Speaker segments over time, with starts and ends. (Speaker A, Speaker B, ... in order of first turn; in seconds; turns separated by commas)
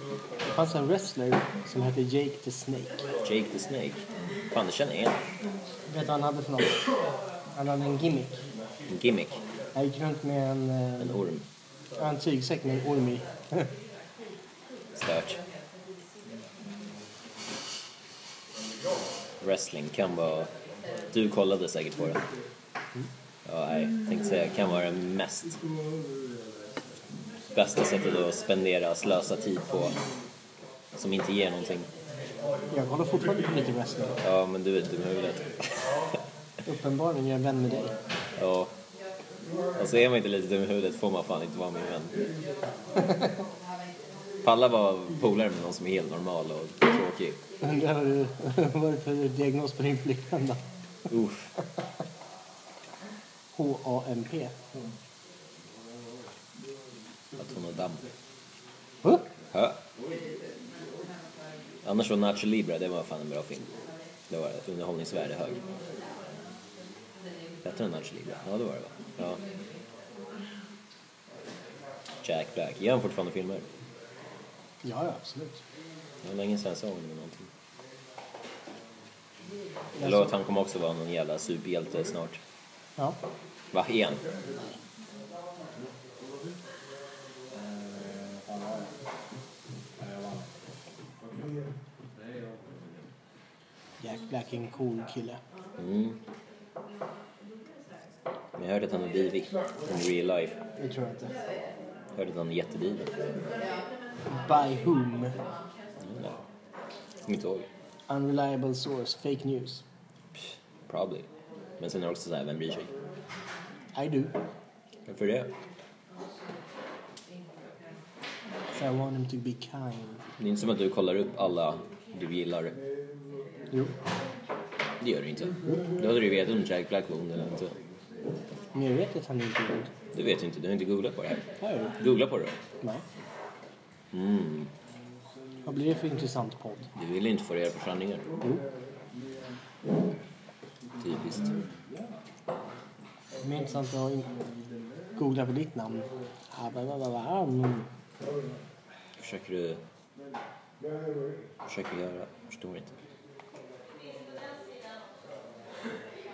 Speaker A: 0.5-3.0, Speaker B: 3.2-5.2, Speaker A: 5.9-6.8, Speaker A: 7.5-8.4, Speaker B: 8.9-9.4, Speaker A: 9.8-11.2, Speaker B: 11.0-11.4, Speaker A: 12.0-13.7, Speaker B: 14.9-15.4, Speaker B: 19.4-20.5, Speaker B: 21.1-22.2, Speaker B: 23.4-25.6, Speaker B: 27.5-29.9, Speaker B: 31.0-31.9, Speaker A: 32.7-34.1, Speaker B: 34.2-35.9, Speaker A: 36.7-37.9, Speaker B: 38.4-38.7, Speaker B: 39.8-42.2, Speaker B: 44.4-47.4, Speaker A: 47.6-50.6, Speaker B: 51.1-51.5, Speaker A: 53.5-54.5, Speaker B: 57.4-58.0, Speaker B: 59.5-59.8, Speaker B: 61.8-63.7, Speaker B: 64.3-65.6, Speaker B: 67.6-69.4, Speaker B: 72.2-73.7, Speaker A: 74.8-75.6, Speaker B: 76.2-77.5, Speaker A: 80.0-80.3, Speaker B: 80.0-82.4, Speaker B: 83.7-84.2, Speaker A: 94.0-95.4, Speaker B: 95.8-96.2, Speaker B: 98.6-100.6, Speaker A: 100.8-101.3, Speaker B: 102.2-103.1, Speaker A: 104.3-105.4, Speaker B: 106.0-106.3, Speaker B: 107.2-107.7, Speaker A: 108.1-109.8, Speaker B: 110.9-111.3, Speaker B: 111.8-112.9, Speaker A: 113.9-114.3, Speaker B: 115.1-115.5, Speaker A: 118.8-120.2, Speaker B: 120.4-122.8, Speaker B: 125.0-127.8, Speaker A: 128.8-129.9, Speaker B: 130.1-131.4, Speaker A: 131.6-132.0, Speaker B: 132.0-132.6, Speaker B: 134.1-134.7, Speaker A: 135.7-136.9, Speaker B: 137.0-138.3, Speaker B: 141.0-141.5, Speaker A: 143.4-144.3, Speaker A: 145.2-147.9, Speaker B: 149.2-149.8, Speaker B: 151.7-152.9